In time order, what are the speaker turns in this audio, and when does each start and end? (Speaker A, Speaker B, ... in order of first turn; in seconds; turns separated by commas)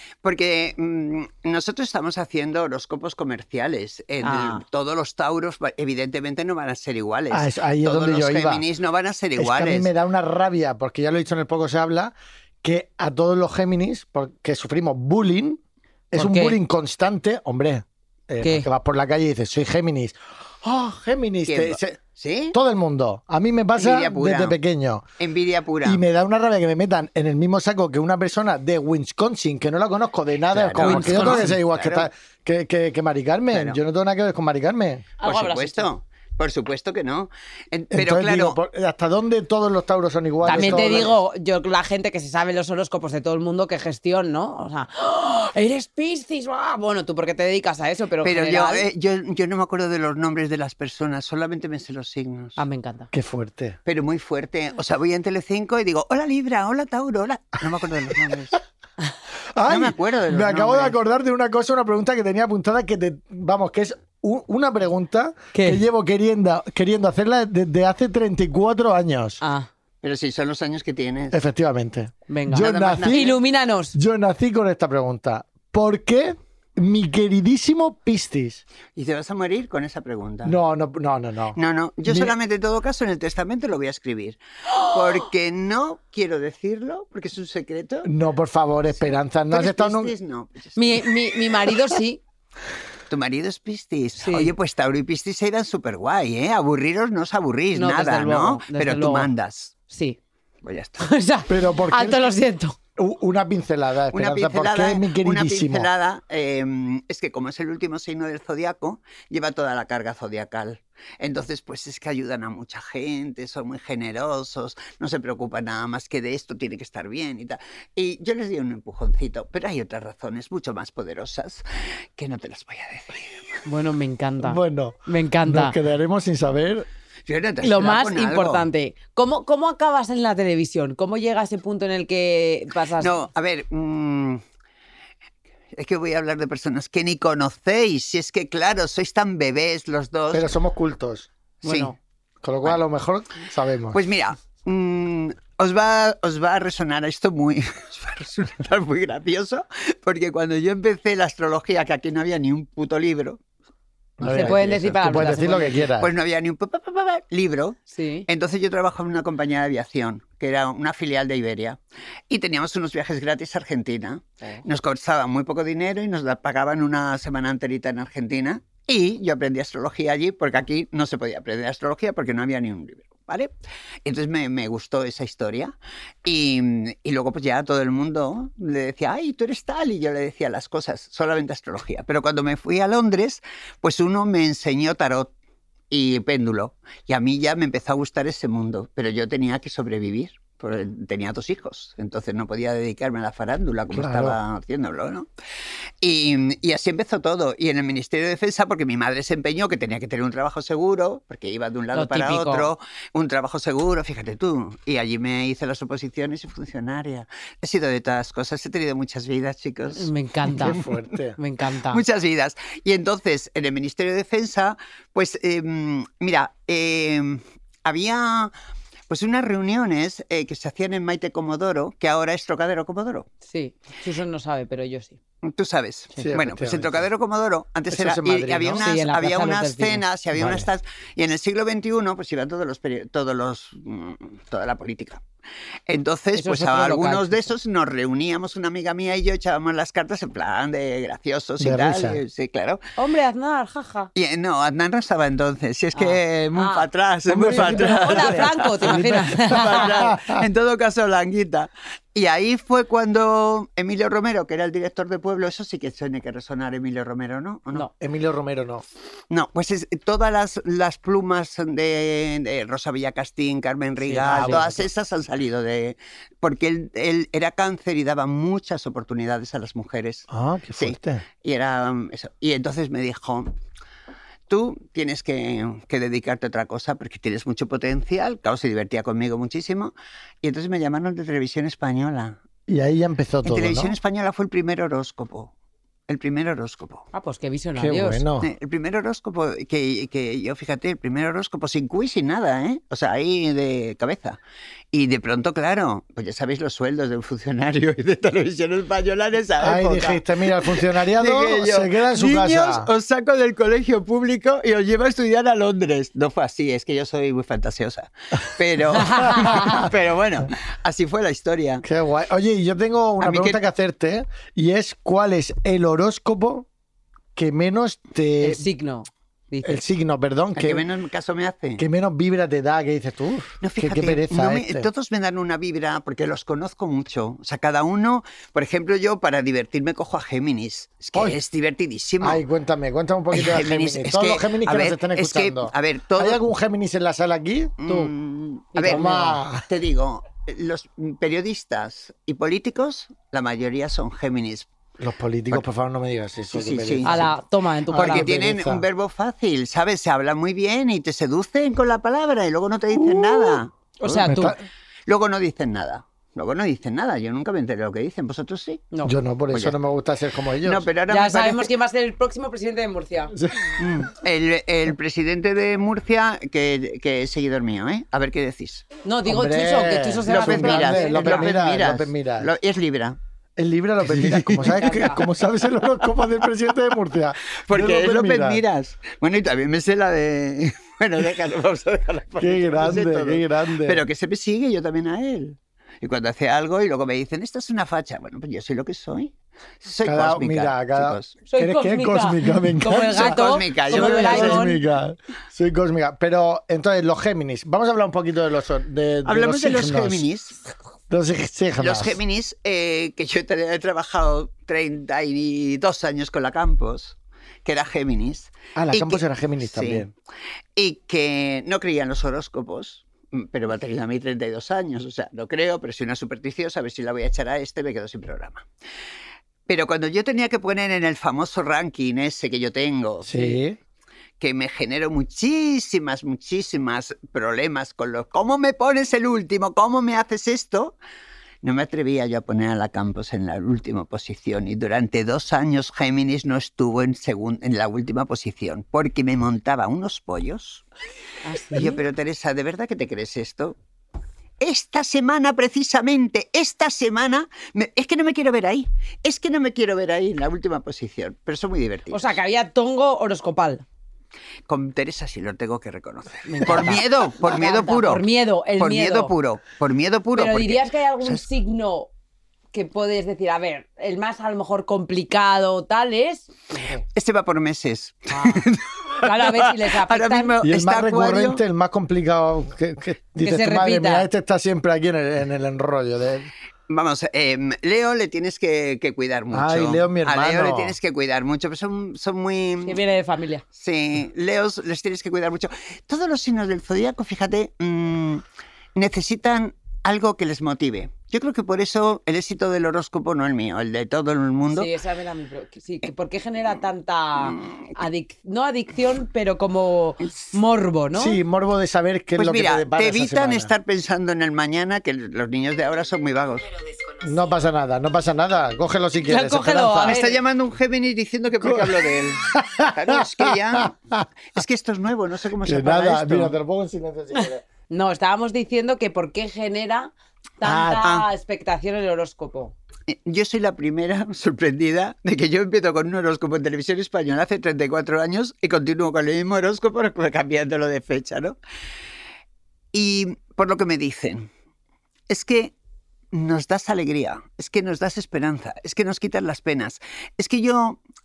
Speaker A: 0.2-9.9, Speaker B: 4.2-4.6, Speaker C: 7.3-8.6, Speaker C: 9.4-15.6, Speaker C: 16.1-22.0, Speaker B: 16.1-16.6, Speaker B: 18.4-18.7, Speaker A: 21.5-22.6, Speaker C: 22.5-25.0, Speaker A: 23.8-24.6, Speaker A: 25.2-26.0, Speaker C: 25.8-35.1, Speaker A: 30.5-32.1, Speaker B: 30.8-31.5, Speaker A: 33.5-33.8, Speaker B: 35.2-35.9, Speaker A: 35.2-38.6, Speaker C: 37.9-41.1, Speaker A: 40.5-41.1, Speaker B: 40.5-48.8, Speaker A: 48.2-52.6, Speaker B: 52.6-53.1, Speaker C: 53.1-53.8, Speaker A: 53.9-58.6, Speaker C: 59.5-69.4, Speaker A: 59.7-61.0, Speaker B: 65.5-65.8, Speaker B: 69.4-69.7, Speaker A: 70.0-71.4, Speaker C: 71.3-73.3, Speaker B: 72.3-74.0, Speaker A: 72.5-73.4, Speaker C: 73.9-78.6, Speaker A: 79.0-80.5, Speaker C: 80.4-82.3, Speaker A: 81.5-88.1, Speaker C: 88.0-90.1, Speaker A: 89.0-91.1, Speaker B: 90.8-92.2, Speaker A: 93.1-99.8, Speaker B: 94.2-94.5, Speaker B: 97.7-99.3, Speaker B: 99.9-100.2, Speaker A: 100.6-101.1, Speaker B: 101.0-102.8, Speaker C: 101.5-102.3, Speaker C: 103.0-105.9, Speaker A: 104.1-121.6, Speaker A: 122.2-123.6, Speaker B: 123.6-125.8, Speaker C: 124.4-126.9, Speaker A: 127.3-128.7, Speaker B: 127.6-133.2, Speaker A: 133.0-134.4, Speaker A: 135.8-140.5, Speaker C: 140.3-141.3, Speaker B: 141.6-141.9, Speaker C: 142.4-144.0, Speaker A: 143.9-153.4, Speaker A: 154.2-155.4, Speaker C: 154.2-156.1, Speaker B: 154.3-155.9, Speaker A: 156.0-161.8, Speaker B: 157.9-158.3, Speaker A: 162.3-173.5, Speaker A: 174.0-175.7, Speaker A: 176.2-185.3, Speaker A: 185.9-195.3, Speaker C: 193.9-194.4, Speaker A: 196.0-210.1, Speaker B: 201.9-202.7, Speaker B: 209.9-210.8, Speaker C: 210.5-211.4, Speaker A: 210.6-210.9, Speaker B: 211.4-212.0, Speaker A: 211.9-218.5, Speaker A: 219.1-223.3, Speaker B: 223.4-225.2, Speaker A: 225.4-235.2, Speaker C: 226.2-227.0, Speaker C: 227.9-228.8, Speaker B: 228.8-230.0, Speaker C: 230.3-230.7, Speaker A: 235.9-242.8, Speaker B: 236.3-237.5, Speaker C: 241.6-242.2, Speaker B: 243.0-244.1, Speaker A: 244.1-257.9, Speaker B: 245.9-246.8, Speaker C: 247.3-250.4, Speaker B: 247.5-250.1, Speaker C: 258.0-258.8, Speaker A: 259.3-273.5, Speaker B: 264.0-264.7, Speaker C: 264.2-264.8, Speaker C: 270.3-271.2, Speaker A: 274.5-282.4, Speaker C: 282.7-283.9, Speaker A: 283.4-285.5, Speaker A: 286.1-287.1, Speaker B: 287.1-288.2, Speaker C: 287.8-288.5, Speaker A: 288.4-294.4, Speaker A: 294.9-311.8, Speaker C: 299.6-302.9, Speaker B: 309.0-309.9, Speaker C: 309.4-309.9, Speaker C: 311.8-316.7, Speaker A: 313.2-313.6, Speaker C: 317.4-318.6, Speaker B: 318.4-319.8, Speaker C: 319.6-320.8, Speaker A: 320.5-321.8, Speaker C: 321.8-324.9, Speaker A: 323.6-332.4, Speaker C: 332.2-337.8, Speaker A: 333.3-336.4, Speaker A: 337.8-344.7, Speaker B: 337.9-338.1, Speaker B: 338.7-339.4, Speaker C: 338.8-339.7, Speaker C: 345.0-347.4, Speaker A: 346.5-347.3, Speaker B: 347.0-348.3, Speaker C: 347.9-348.8, Speaker A: 347.9-354.3, Speaker C: 352.9-353.6, Speaker B: 354.0-354.6, Speaker C: 354.2-354.6, Speaker A: 355.1-358.8, Speaker C: 359.0-360.9, Speaker A: 359.5-359.8, Speaker A: 360.6-361.7, Speaker B: 361.1-363.3, Speaker C: 363.3-363.9, Speaker A: 363.8-368.8, Speaker B: 369.0-371.5, Speaker C: 369.2-372.5, Speaker A: 370.3-373.2, Speaker C: 373.6-378.6, Speaker A: 374.1-374.9, Speaker B: 374.7-375.2, Speaker A: 377.6-391.4, Speaker C: 382.4-384.0, Speaker C: 390.0-400.2, Speaker B: 391.5-394.8, Speaker A: 393.1-394.7, Speaker A: 399.2-400.6, Speaker C: 401.1-402.2, Speaker A: 401.8-410.1, Speaker C: 408.8-410.1, Speaker A: 410.8-418.6, Speaker A: 419.7-423.6, Speaker C: 423.2-423.8, Speaker A: 424.4-431.0, Speaker A: 431.6-440.8, Speaker B: 441.4-442.0, Speaker A: 441.7-443.8, Speaker A: 444.6-452.4, Speaker B: 452.1-453.8, Speaker A: 454.7-458.2, Speaker B: 456.5-459.3, Speaker A: 458.8-461.4, Speaker B: 460.3-462.1, Speaker B: 462.7-467.0, Speaker A: 467.1-471.6, Speaker B: 468.3-468.7, Speaker B: 469.2-470.5, Speaker C: 470.6-476.5, Speaker B: 473.4-474.3, Speaker A: 476.9-483.0, Speaker C: 479.5-481.0, Speaker B: 482.8-483.6, Speaker A: 483.7-488.4, Speaker A: 488.9-494.9, Speaker B: 494.7-501.4, Speaker A: 497.4-497.8, Speaker C: 501.1-503.7, Speaker A: 502.4-506.7, Speaker C: 507.2-510.2, Speaker B: 509.3-510.4, Speaker A: 510.1-514.0, Speaker C: 511.6-514.2, Speaker A: 514.5-516.5, Speaker C: 515.6-517.6, Speaker B: 517.3-522.8, Speaker C: 520.6-521.1, Speaker A: 521.0-521.2, Speaker A: 523.1-531.6, Speaker A: 532.9-534.5, Speaker A: 535.3-535.7, Speaker A: 536.3-541.0